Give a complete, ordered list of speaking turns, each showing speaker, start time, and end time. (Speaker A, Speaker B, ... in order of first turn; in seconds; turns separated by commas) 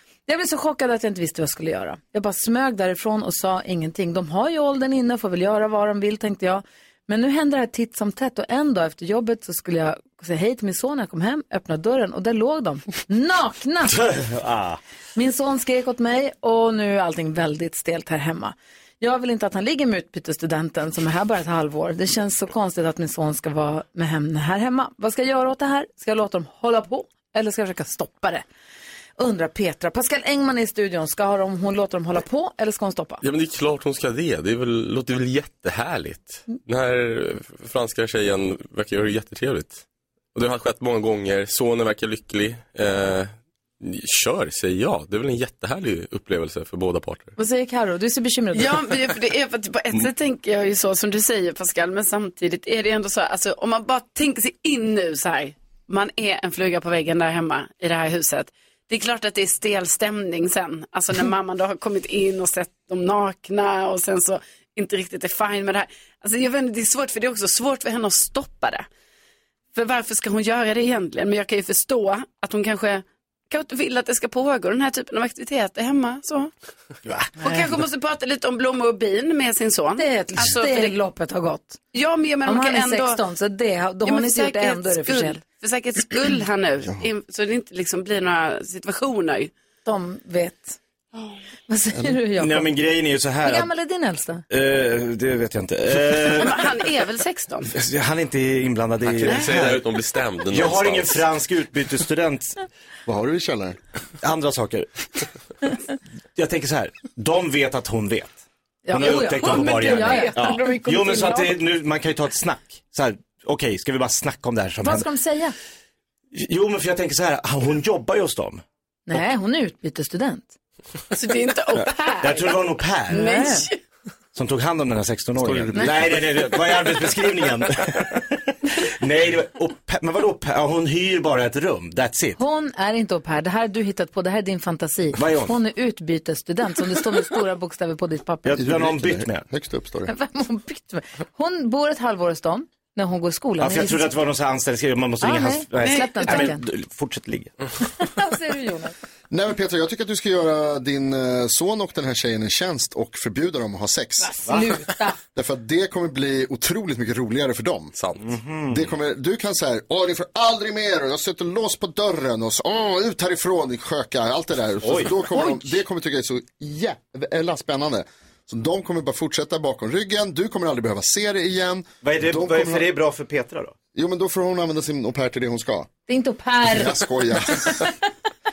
Speaker A: 0.3-14.0, Speaker B: 13.9-14.8, Speaker A: 15.2-28.4, Speaker A: 29.2-33.2, Speaker C: 33.2-47.4, Speaker A: 47.4-48.9, Speaker D: 48.5-68.9, Speaker D: 69.8-76.5, Speaker B: 77.1-77.3, Speaker D: 77.4-81.0, Speaker A: 80.0-81.8, Speaker D: 81.9-83.2, Speaker A: 82.5-85.4, Speaker D: 84.0-89.5, Speaker A: 89.8-90.8, Speaker A: 91.7-92.7, Speaker B: 92.4-93.7, Speaker A: 93.4-94.4, Speaker B: 94.5-96.7, Speaker D: 96.3-97.7, Speaker B: 97.7-99.9, Speaker C: 99.0-101.2, Speaker B: 100.5-102.6, Speaker E: 103.1-103.8, Speaker B: 104.2-104.9, Speaker B: 106.3-108.4, Speaker A: 108.9-110.8, Speaker B: 108.9-115.1, Speaker D: 109.3-111.5, Speaker A: 114.8-115.5, Speaker B: 116.3-118.6, Speaker A: 119.1-120.5, Speaker D: 121.1-123.8, Speaker B: 122.2-123.2, Speaker A: 123.1-123.7, Speaker B: 124.3-132.4, Speaker C: 125.4-126.3, Speaker A: 132.4-138.6, Speaker B: 135.2-135.6, Speaker B: 138.4-139.5, Speaker E: 138.6-140.1, Speaker A: 140.1-144.1, Speaker B: 143.6-147.5, Speaker A: 145.2-146.6, Speaker D: 145.8-146.5, Speaker A: 148.0-148.9, Speaker E: 149.3-154.3, Speaker A: 154.2-155.2, Speaker E: 155.3-157.9, Speaker C: 157.9-158.4, Speaker B: 158.2-158.8, Speaker E: 158.7-172.9, Speaker B: 164.8-165.2, Speaker B: 172.0-173.8, Speaker E: 173.9-175.9, Speaker A: 176.1-177.0, Speaker E: 176.7-177.9